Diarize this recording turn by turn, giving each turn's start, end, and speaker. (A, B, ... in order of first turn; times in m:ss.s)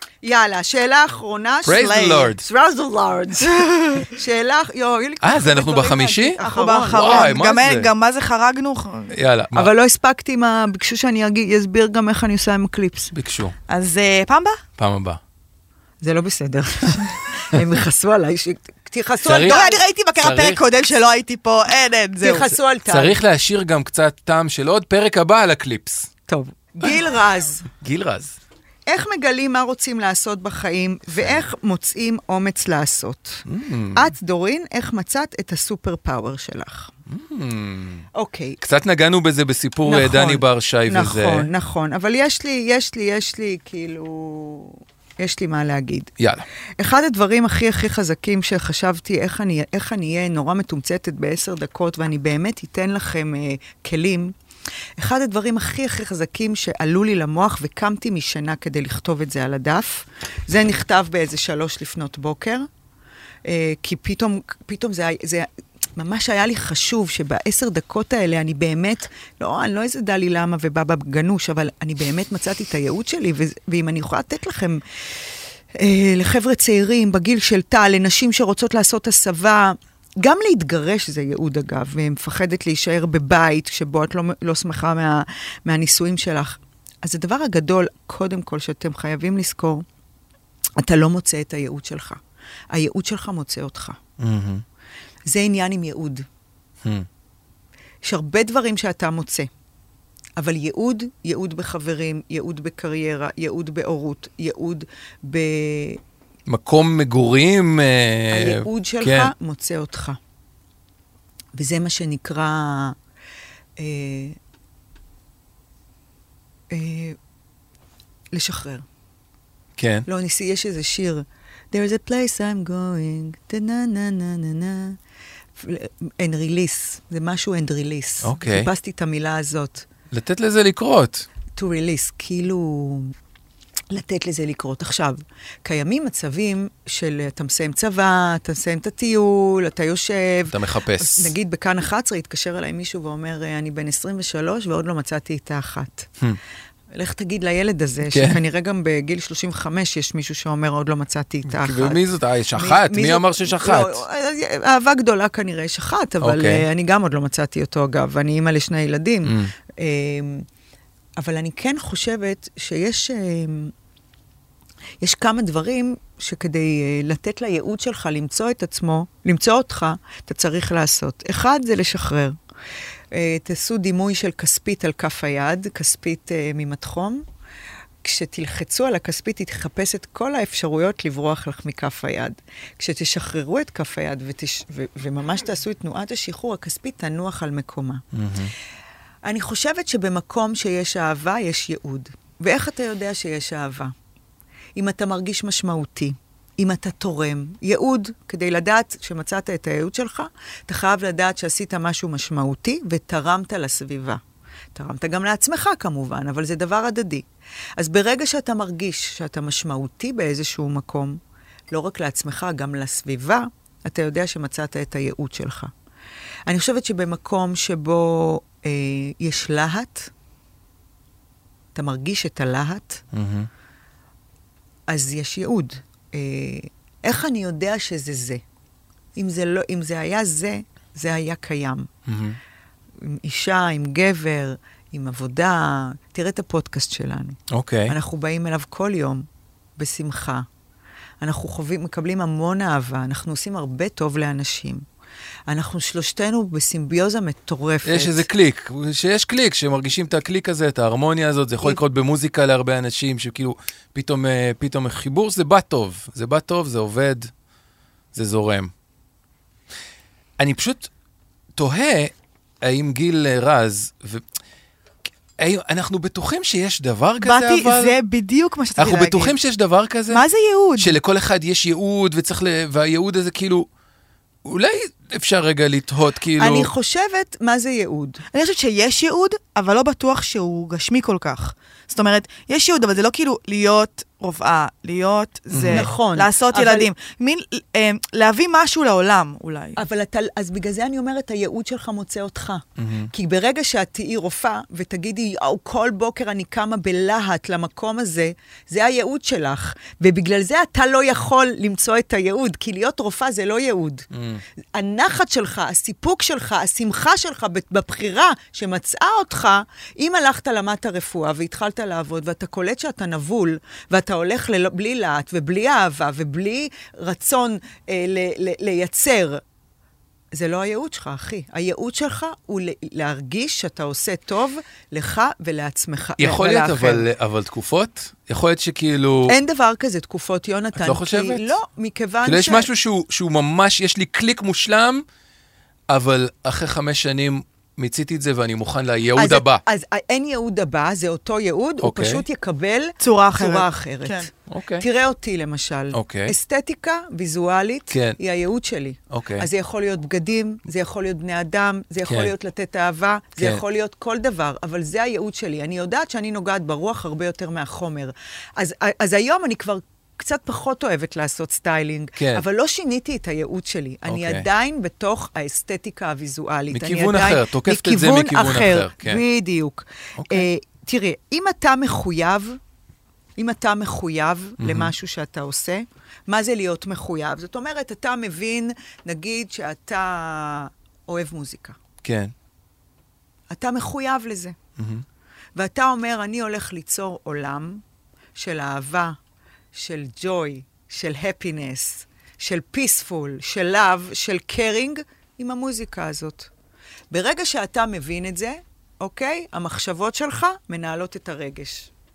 0:00.2-0:07.4 A
0:01.6-0:02.4 B
0:01.8-0:02.2 C
0:05.2-0:07.9 B
0:06.4-0:09.1 C
0:09.1-0:09.7 B
0:09.5-0:13.1 A
0:13.1-0:13.5 B
0:13.7-0:14.6 C
0:14.8-0:15.2 B
0:16.0-0:19.8 A
0:19.2-0:19.6 B
0:19.3-0:22.5 C
0:20.2-0:20.6 B
0:22.2-0:23.2 A
0:22.9-0:26.1 B
0:26.3-0:27.7 A
0:27.8-0:28.4 B
0:28.9-0:36.9 A
0:33.4-0:34.1 B
0:37.1-0:38.0 B
0:38.1-0:38.6 A
0:38.6-0:41.5 B
0:39.8-0:46.1 A
0:46.2-0:46.4 B
0:46.8-0:54.3 A
0:55.0-1:02.7 A
1:03.4-1:14.8 A
1:15.7-1:29.8 A
1:30.8-1:32.2 A
1:32.7-1:34.0 A
1:34.2-1:34.6 B
1:35.3-1:36.2 A
1:38.0-1:39.5 A
1:40.4-1:46.0 A
1:46.5-1:49.3 B
1:48.3-1:50.2 A
1:51.5-1:53.0 A
1:53.8-1:54.4 A
1:56.7-1:57.2 A
1:58.3-1:58.8 A
1:59.8-2:00.0 B
2:00.0-2:05.0 A
2:05.6-2:09.8 A
2:08.2-2:08.7 B
2:10.1-2:11.2 B
2:11.6-2:13.1 A
2:13.9-2:26.1 A
2:20.5-2:21.3 B
2:26.9-2:32.0 A
2:28.0-2:28.4 B
2:31.4-2:34.0 B
2:32.6-2:40.5 A
2:36.2-2:36.6 B
2:39.2-2:39.5 B
2:41.2-2:43.7 A
2:45.0-2:52.4 A
2:53.1-2:57.2 A
2:58.0-3:08.0 A
3:08.1-3:08.5 B
3:09.2-3:13.9 A
3:14.8-3:24.2 A
3:24.7-3:27.2 A
3:27.8-3:31.2 A
3:31.7-3:35.7 A
3:36.5-3:40.1 A
3:41.7-3:43.0 A
3:43.1-3:43.5 B
3:44.9-3:48.4 A
3:49.1-3:51.9 A
3:52.1-3:52.4 B
3:53.0-3:59.2 A
3:57.5-3:57.9 B
3:59.8-4:00.4 A
4:01.2-4:04.8 A
4:05.5-4:08.3 A
4:07.8-4:17.3 B
4:18.1-4:18.7 B
4:20.4-4:20.9 B
4:21.6-4:24.2 B
4:25.4-4:27.9 B
4:27.2-4:29.4 C
4:28.8-4:30.2 B
4:30.1-4:31.0 C
4:30.8-4:33.7 B
4:34.4-4:36.7 B
4:36.4-4:38.2 A
4:38.3-4:49.8 C
4:45.5-4:45.9 B
4:45.7-4:46.9 A
4:49.8-5:04.1 A
4:52.8-4:53.1 B
5:04.1-5:04.4 B
5:04.7-5:19.4 A
5:20.3-5:27.1 A
5:26.2-5:29.4 B
5:29.3-5:32.7 A
5:30.8-5:31.5 B
5:32.2-5:35.0 B
5:35.9-5:39.6 B
5:39.1-6:12.6 A
5:41.8-5:42.2 B
5:43.0-5:44.3 C
5:44.5-5:44.8 B
5:45.9-5:46.3 B
5:47.9-5:48.2 B
5:49.1-5:49.5 B
5:52.0-5:52.3 B
6:02.2-6:02.4 B
6:04.0-6:04.4 B
6:06.7-6:09.2 B
6:10.2-6:10.5 B
6:13.4-6:21.8 A
6:14.6-6:14.9 B
6:22.0-6:22.3 B
6:23.5-6:24.6 A
6:24.8-6:25.0 B
6:25.5-6:27.8 A
6:28.4-6:29.2 A
6:29.7-6:36.5 A
6:37.1-6:41.9 A